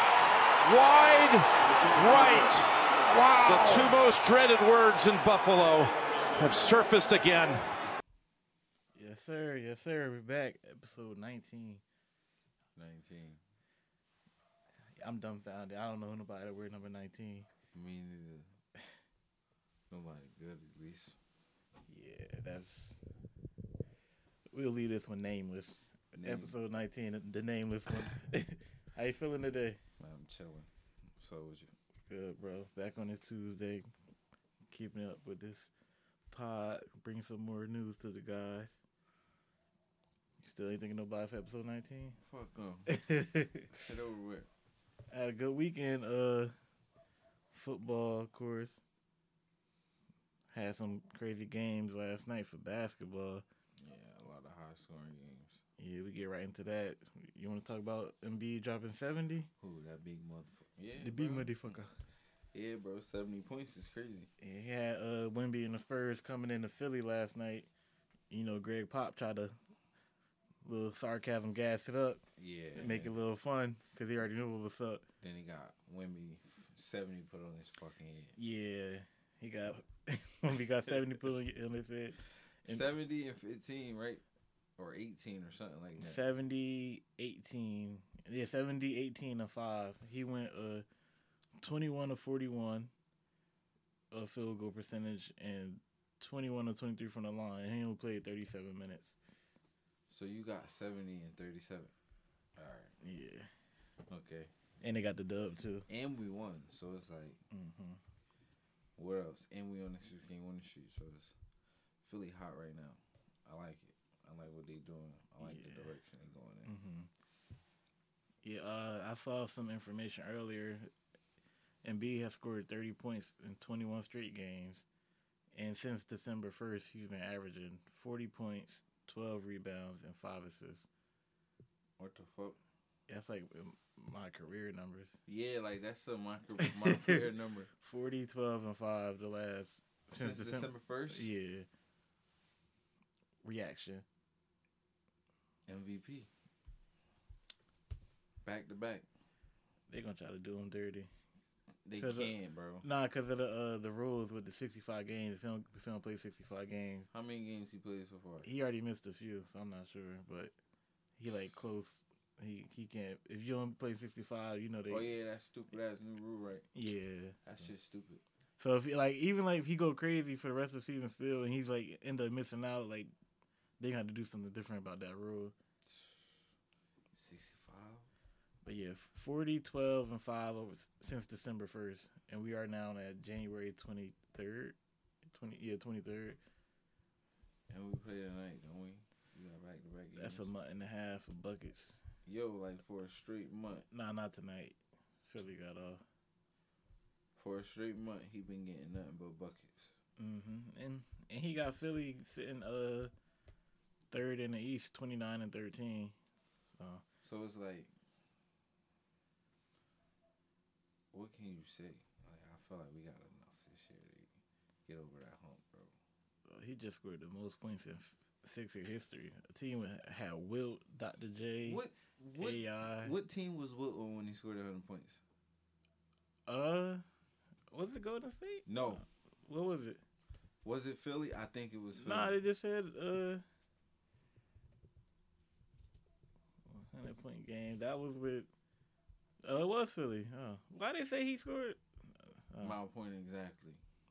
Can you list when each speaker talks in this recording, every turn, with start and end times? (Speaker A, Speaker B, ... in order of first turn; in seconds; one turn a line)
Speaker A: 0.6-7.6
Speaker B: 8.9-11.8
Speaker C: 12.8-13.4
Speaker B: 14.9-17.5
Speaker C: 17.7-18.5
Speaker C: 19.9-21.2
Speaker B: 21.9-23.0
Speaker B: 24.5-29.8
Speaker C: 26.1-26.5
Speaker C: 30.0-31.7
Speaker B: 32.1-33.8
Speaker B: 34.7-35.7
Speaker B: 36.3-38.8
Speaker B: 40.4-42.2
Speaker C: 42.2-42.9
Speaker B: 42.9-43.8
Speaker C: 43.7-44.5
Speaker B: 45.1-46.5
Speaker B: 47.5-48.8
Speaker B: 50.5-53.4
Speaker C: 53.8-55.6
Speaker B: 55.8-59.5
Speaker C: 59.6-61.8
Speaker B: 61.0-61.9
Speaker C: 62.5-64.3
Speaker B: 64.4-67.7
Speaker B: 68.3-69.5
Speaker B: 70.6-72.2
Speaker C: 72.4-73.1
Speaker B: 72.8-75.0
Speaker C: 75.2-78.3
Speaker B: 78.4-82.8
Speaker C: 80.9-81.2
Speaker C: 82.7-84.2
Speaker C: 84.8-86.2
Speaker B: 86.0-90.8
Speaker B: 91.6-92.9
Speaker B: 94.1-99.2
Speaker C: 100.1-101.9
Speaker C: 102.5-102.9
Speaker B: 103.0-103.5
Speaker C: 104.1-104.5
Speaker B: 104.8-105.9
Speaker C: 105.9-107.4
Speaker B: 107.5-108.0
Speaker C: 109.0-111.4
Speaker C: 112.0-116.7
Speaker B: 115.4-116.0
Speaker B: 116.7-117.1
Speaker B: 118.4-120.9
Speaker B: 121.8-124.8
Speaker B: 125.5-130.9
Speaker C: 132.0-132.6
Speaker B: 133.1-135.2
Speaker C: 135.3-137.7
Speaker B: 136.6-137.2
Speaker B: 137.8-141.7
Speaker C: 140.1-141.3
Speaker B: 143.4-144.0
Speaker C: 145.7-146.3
Speaker C: 148.4-149.1
Speaker B: 149.9-151.1
Speaker C: 151.8-152.8
Speaker B: 152.0-157.1
Speaker C: 157.1-158.5
Speaker B: 158.4-160.5
Speaker B: 161.2-165.1
Speaker C: 164.9-166.7
Speaker B: 166.7-167.4
Speaker C: 167.4-168.2
Speaker B: 168.6-173.1
Speaker B: 173.8-175.5
Speaker C: 175.8-176.3
Speaker C: 177.1-178.1
Speaker B: 178.6-184.8
Speaker B: 185.3-186.4
Speaker C: 187.7-190.5
Speaker B: 190.2-192.0
Speaker C: 192.2-193.8
Speaker B: 193.9-196.0
Speaker C: 197.3-200.0
Speaker B: 200.2-203.1
Speaker B: 204.1-206.1
Speaker B: 206.7-207.0
Speaker C: 207.2-207.9
Speaker C: 211.1-214.3
Speaker C: 214.8-215.9
Speaker B: 216.4-221.8
Speaker C: 221.6-225.2
Speaker B: 222.3-223.1
Speaker B: 226.5-227.0
Speaker B: 227.7-230.0
Speaker C: 228.7-229.0
Speaker C: 230.6-232.4
Speaker B: 231.9-233.4
Speaker B: 236.7-238.5
Speaker B: 239.4-241.8
Speaker B: 242.5-242.8
Speaker C: 242.6-243.8